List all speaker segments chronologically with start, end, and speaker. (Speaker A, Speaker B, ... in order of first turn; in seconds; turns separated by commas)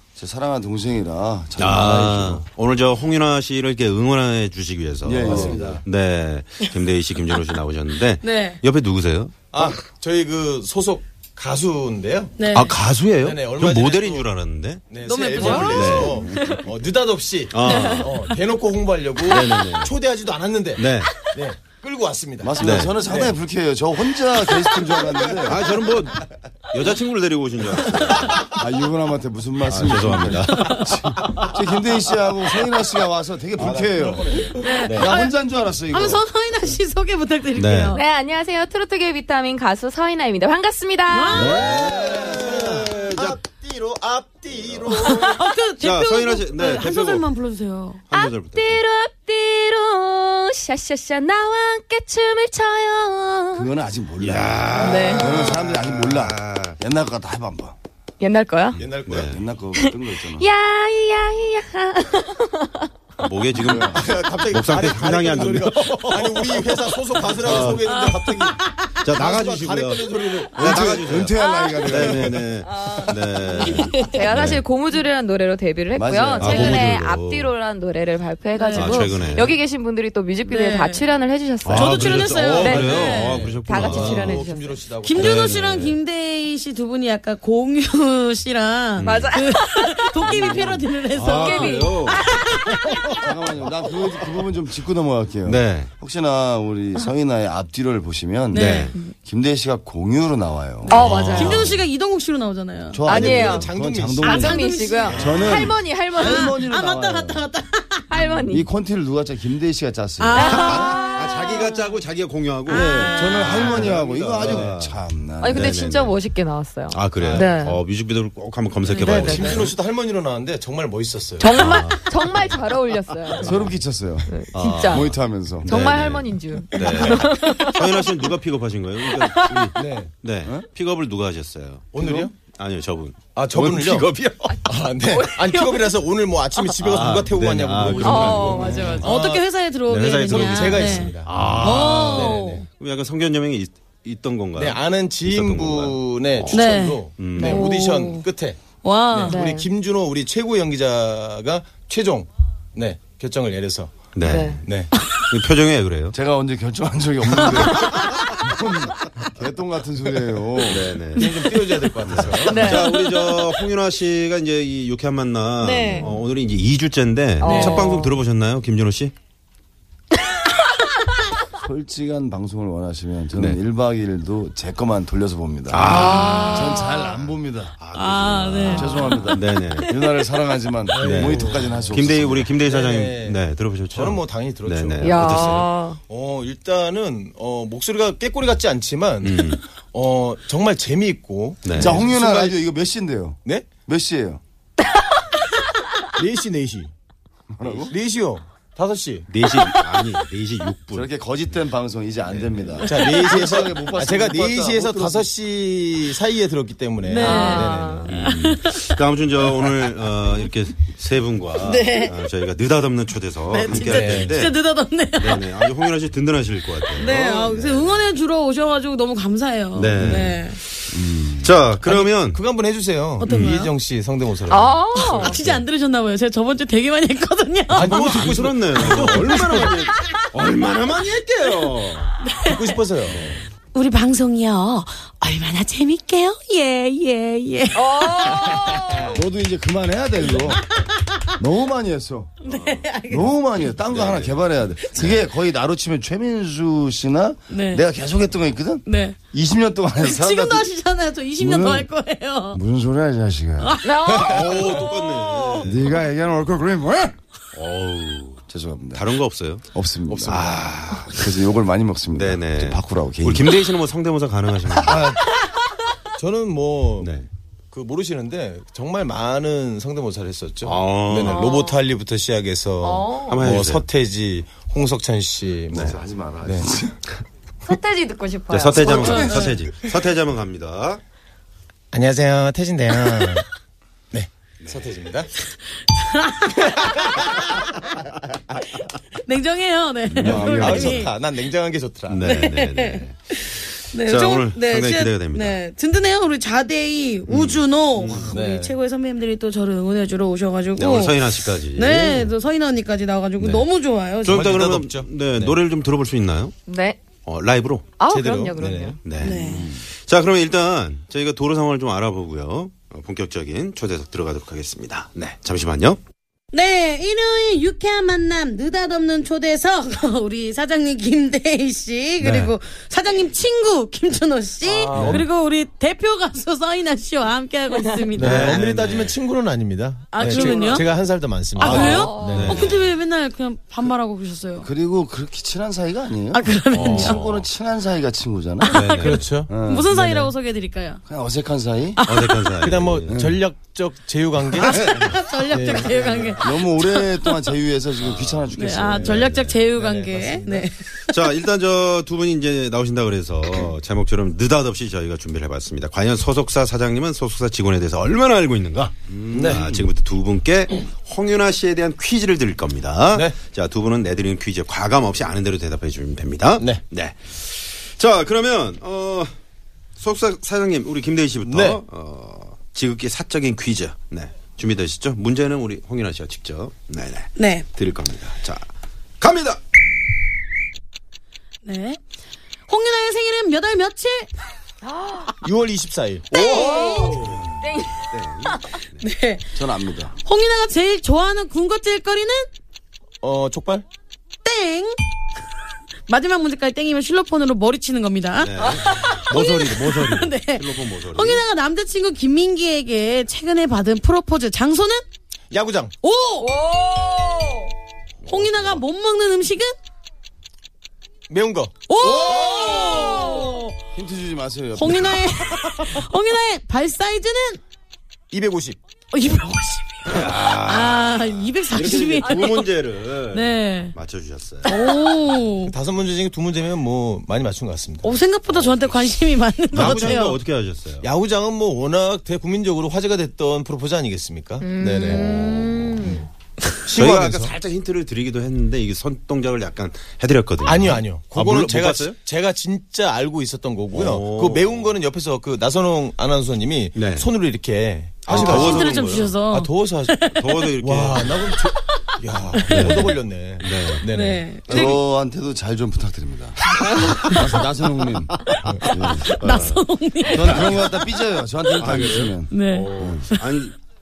Speaker A: 0.2-2.5, Speaker B: 1.6-9.3, Speaker A: 5.0-5.8, Speaker C: 5.2-5.8, Speaker D: 8.2-8.6, Speaker C: 9.5-12.4, Speaker D: 12.4-12.7, Speaker B: 12.5-14.8, Speaker C: 13.2-14.3, Speaker C: 14.9-23.4, Speaker D: 15.0-16.1, Speaker B: 15.4-16.3, Speaker A: 16.1-16.6, Speaker B: 17.5-18.2, Speaker D: 17.6-18.1, Speaker E: 17.7-18.0, Speaker B: 19.2-19.9, Speaker B: 20.8-21.1, Speaker A: 22.4-25.7, Speaker B: 22.6-22.9, Speaker B: 25.4-28.5, Speaker A: 28.4-36.2, Speaker B: 29.7-31.6, Speaker D: 30.5-30.9, Speaker C: 33.6-35.1, Speaker D: 34.6-38.0, Speaker B: 37.5-38.0, Speaker E: 37.9-41.9, Speaker D: 41.1-42.0, Speaker B: 41.3-43.4, Speaker C: 41.6-45.5, Speaker B: 44.6-45.0, Speaker D: 44.9-48.0, Speaker B: 45.8-47.3, Speaker B: 48.1-48.8, Speaker E: 48.1-53.7, Speaker A: 53.5-57.8, Speaker B: 54.2-56.8, Speaker E: 54.8-55.5, Speaker D: 54.8-55.1, Speaker E: 58.2-58.8, Speaker B: 58.7-59.4, Speaker C: 58.8-59.4, Speaker A: 59.1-60.5, Speaker E: 59.7-62.9, Speaker B: 63.2-66.6, Speaker C: 63.6-70.7, Speaker A: 63.6-64.0, Speaker B: 67.2-68.0, Speaker A: 67.4-67.8, Speaker D: 67.9-68.9, Speaker B: 69.0-74.7, Speaker A: 70.5-72.5, Speaker D: 71.4-71.9, Speaker E: 71.5-72.1, Speaker E: 72.6-84.8, Speaker D: 73.6-74.2, Speaker A: 76.0-76.9, Speaker B: 76.4-77.5, Speaker D: 78.5-79.3, Speaker B: 78.7-79.6, Speaker D: 80.5-81.1, Speaker B: 81.7-84.5, Speaker D: 81.7-83.4, Speaker C: 82.4-85.5, Speaker D: 85.0-93.2, Speaker B: 85.1-86.0, Speaker B: 89.0-89.4, Speaker E: 89.0-90.3, Speaker B: 90.3-93.2, Speaker C: 90.3-90.7, Speaker E: 91.3-92.4, Speaker A: 93.2-100.9, Speaker B: 95.4-95.9, Speaker D: 98.5-99.2, Speaker B: 98.5-99.0, Speaker D: 100.9-103.0, Speaker E: 100.9-101.8, Speaker B: 100.9-101.8, Speaker A: 102.9-107.5, Speaker C: 103.1-105.7, Speaker E: 103.1-106.6, Speaker D: 104.2-105.5, Speaker D: 106.2-108.1, Speaker E: 108.1-108.7, Speaker A: 108.5-110.9, Speaker D: 110.2-111.7, Speaker E: 110.4-111.7, Speaker B: 110.4-115.0, Speaker A: 112.7-115.8, Speaker D: 112.7-113.9, Speaker C: 113.5-114.8, Speaker E: 115.4-117.8, Speaker B: 115.5-116.2, Speaker B: 116.9-119.7, Speaker C: 117.2-117.7, Speaker E: 118.9-119.7, Speaker C: 119.0-121.7, Speaker E: 121.4-123.7, Speaker B: 121.5-123.8, Speaker A: 123.4-125.8, Speaker E: 124.2-125.1, Speaker B: 124.5-134.6, Speaker E: 125.7-128.3, Speaker C: 126.8-127.0, Speaker E: 129.1-129.7, Speaker C: 129.7-130.1, Speaker C: 131.9-132.3, Speaker A: 132.0-132.3, Speaker C: 133.3-139.4, Speaker E: 134.5-135.9, Speaker B: 136.8-139.1, Speaker E: 138.0-139.1, Speaker A: 138.5-139.0, Speaker D: 139.0-142.7, Speaker B: 139.9-147.7, Speaker C: 140.0-142.6, Speaker C: 144.6-148.6, Speaker D: 146.5-148.2, Speaker E: 147.4-148.2, Speaker D: 148.8-149.4, Speaker C: 149.1-153.9, Speaker E: 149.3-149.7, Speaker B: 154.2-156.2, Speaker E: 154.2-154.6, Speaker C: 154.6-154.9, Speaker A: 156.1-161.0, Speaker B: 157.7-158.4, Speaker B: 160.6-161.4, Speaker C: 161.2-162.9, Speaker B: 162.0-169.1, Speaker E: 162.5-163.4, Speaker D: 165.6-166.1, Speaker D: 167.4-168.0, Speaker E: 167.4-168.2, Speaker A: 171.6-177.8, Speaker B: 175.7-177.3, Speaker E: 175.9-176.7, Speaker D: 176.1-176.9, Speaker B: 177.8-180.0, Speaker D: 177.9-179.3, Speaker A: 178.6-182.5, Speaker C: 180.9-182.0, Speaker B: 181.0-185.7, Speaker C: 182.6-183.4, Speaker C: 183.9-192.6, Speaker E: 185.0-186.0, Speaker B: 189.2-189.6, Speaker B: 191.7-192.0, Speaker A: 191.7-194.4, Speaker C: 196.2-196.9, Speaker A: 197.5-197.9, Speaker C: 197.9-199.3, Speaker B: 199.3-201.1, Speaker A: 200.9-205.3, Speaker C: 202.8-208.2, Speaker D: 207.1-208.9, Speaker E: 207.2-208.2, Speaker B: 208.1-214.6, Speaker D: 211.6-212.2, Speaker D: 213.5-215.7, Speaker C: 213.7-214.4, Speaker B: 215.2-218.1, Speaker D: 216.9-220.6, Speaker B: 219.8-222.4, Speaker A: 220.9-221.5, Speaker C: 221.8-224.9, Speaker D: 223.2-223.7, Speaker B: 223.3-223.6, Speaker E: 224.5-225.4, Speaker D: 224.9-228.0, Speaker B: 225.1-225.6, Speaker C: 227.7-229.8, Speaker B: 227.8-232.2, Speaker D: 232.2-232.8, Speaker C: 232.4-233.4, Speaker B: 233.1-233.4, Speaker D: 233.7-239.0, Speaker E: 237.8-239.2, Speaker A: 239.0-240.7, Speaker D: 240.4-241.2, Speaker A: 241.4-242.4, Speaker D: 242.4-243.3, Speaker B: 242.5-242.9, Speaker A: 243.1-250.7, Speaker B: 243.9-244.4, Speaker B: 245.0-245.2, Speaker D: 247.5-247.8, Speaker D: 248.9-249.2, Speaker D: 250.0-252.6, Speaker A: 251.4-251.9, Speaker A: 252.5-253.8, Speaker D: 253.6-254.6, Speaker E: 253.8-255.7, Speaker C: 254.2-254.9, Speaker B: 254.2-256.0, Speaker A: 255.6-257.2, Speaker B: 257.5-258.4, Speaker A: 258.5-259.2, Speaker B: 258.9-259.6, Speaker A: 259.7-263.6, Speaker C: 260.1-260.6, Speaker B: 260.3-261.3, Speaker B: 262.1-265.1, Speaker C: 264.9-265.2, Speaker C: 266.2-267.1, Speaker B: 267.0-267.3, Speaker C: 267.7-276.7, Speaker B: 270.6-271.5, Speaker E: 271.3-271.7, Speaker E: 272.8-273.4, Speaker B: 273.2-273.8, Speaker B: 275.7-276.0, Speaker A: 275.7-277.0, Speaker E: 277.7-279.3, Speaker B: 278.5-281.0, Speaker D: 278.8-279.6, Speaker C: 281.9-283.5, Speaker C: 284.1-285.3, Speaker B: 284.6-284.9, Speaker D: 285.9-287.3, Speaker C: 286.9-287.2, Speaker D: 289.1-291.1, Speaker A: 290.1-291.1, Speaker C: 290.2-292.4, Speaker B: 292.1-293.1, Speaker D: 292.2-304.5, Speaker B: 293.9-295.6, Speaker B: 297.3-298.3, Speaker C: 298.1-298.7, Speaker B: 300.8-302.3, Speaker B: 303.4-303.7, Speaker B: 304.2-306.6, Speaker C: 304.3-305.6, Speaker E: 306.7-307.0, Speaker B: 307.2-308.0, Speaker E: 308.0-309.0, Speaker C: 308.1-309.0, Speaker B: 309.0-316.0, Speaker D: 309.2-309.7, Speaker A: 309.3-309.8, Speaker D: 316.5-328.6, Speaker B: 322.2-322.5, Speaker C: 324.6-325.3, Speaker B: 324.9-325.2, Speaker B: 328.1-329.1, Speaker C: 328.1-332.7, Speaker D: 330.1-330.9, Speaker B: 330.2-330.8, Speaker D: 331.6-334.7, Speaker B: 331.6-332.9, Speaker E: 331.9-332.5, Speaker A: 334.6-339.9, Speaker D: 336.3-337.2, Speaker B: 336.7-337.5, Speaker D: 338.6-341.0, Speaker B: 338.7-339.2, Speaker C: 339.0-340.3, Speaker A: 341.1-342.0, Speaker D: 342.0-342.5, Speaker B: 342.1-343.2, Speaker C: 342.6-344.9, Speaker A: 343.1-343.4, Speaker D: 344.6-347.4, Speaker B: 344.8-345.1, Speaker C: 345.5-346.4, Speaker A: 346.4-349.3, Speaker B: 348.0-349.6, Speaker D: 348.5-350.9, Speaker C: 349.7-350.7, Speaker B: 351.0-369.3, Speaker A: 359.1-359.9, Speaker C: 359.3-359.6, Speaker B: 370.0-378.6, Speaker C: 371.4-371.8, Speaker D: 377.4-377.6, Speaker B: 379.2-379.6, Speaker D: 381.6-382.0, Speaker D: 382.7-384.3, Speaker C: 385.4-386.3, Speaker D: 386.3-387.3, Speaker E: 386.4-387.2, Speaker B: 387.2-389.1, Speaker D: 389.0-389.5, Speaker A: 389.5-390.1, Speaker D: 390.2-392.5, Speaker C: 393.2-393.9, Speaker D: 394.4-395.0, Speaker D: 396.1-405.0, Speaker B: 398.4-401.4, Speaker C: 405.5-405.9, Speaker D: 406.0-406.6, Speaker B: 408.3-408.8, Speaker D: 408.3-409.7, Speaker C: 411.3-411.8, Speaker D: 411.9-413.8, Speaker E: 412.5-413.0, Speaker A: 413.9-415.4, Speaker D: 414.8-417.6, Speaker C: 418.3-418.8, Speaker D: 419.1-422.7, Speaker B: 420.1-424.7, Speaker D: 423.3-423.9, Speaker D: 424.6-425.7, Speaker C: 425.7-428.1, Speaker D: 428.0-430.4, Speaker B: 428.5-429.0, Speaker B: 429.7-431.1, Speaker C: 429.8-430.1, Speaker C: 431.0-435.4, Speaker E: 434.9-436.0, Speaker B: 435.1-436.1, Speaker C: 436.8-437.5, Speaker B: 436.9-442.2, Speaker C: 440.6-454.9, Speaker B: 443.9-444.9, Speaker B: 446.9-447.3, Speaker B: 448.3-449.3, Speaker D: 448.3-450.7, Speaker B: 450.3-451.5, Speaker D: 452.6-452.9, Speaker B: 452.7-454.1, Speaker D: 454.1-455.0, Speaker A: 454.7-459.3, Speaker B: 454.7-455.0, Speaker B: 456.9-457.5, Speaker D: 459.0-460.9, Speaker B: 459.2-459.9, Speaker A: 460.3-463.3, Speaker B: 460.4-460.9, Speaker B: 461.8-463.8, Speaker D: 462.5-463.6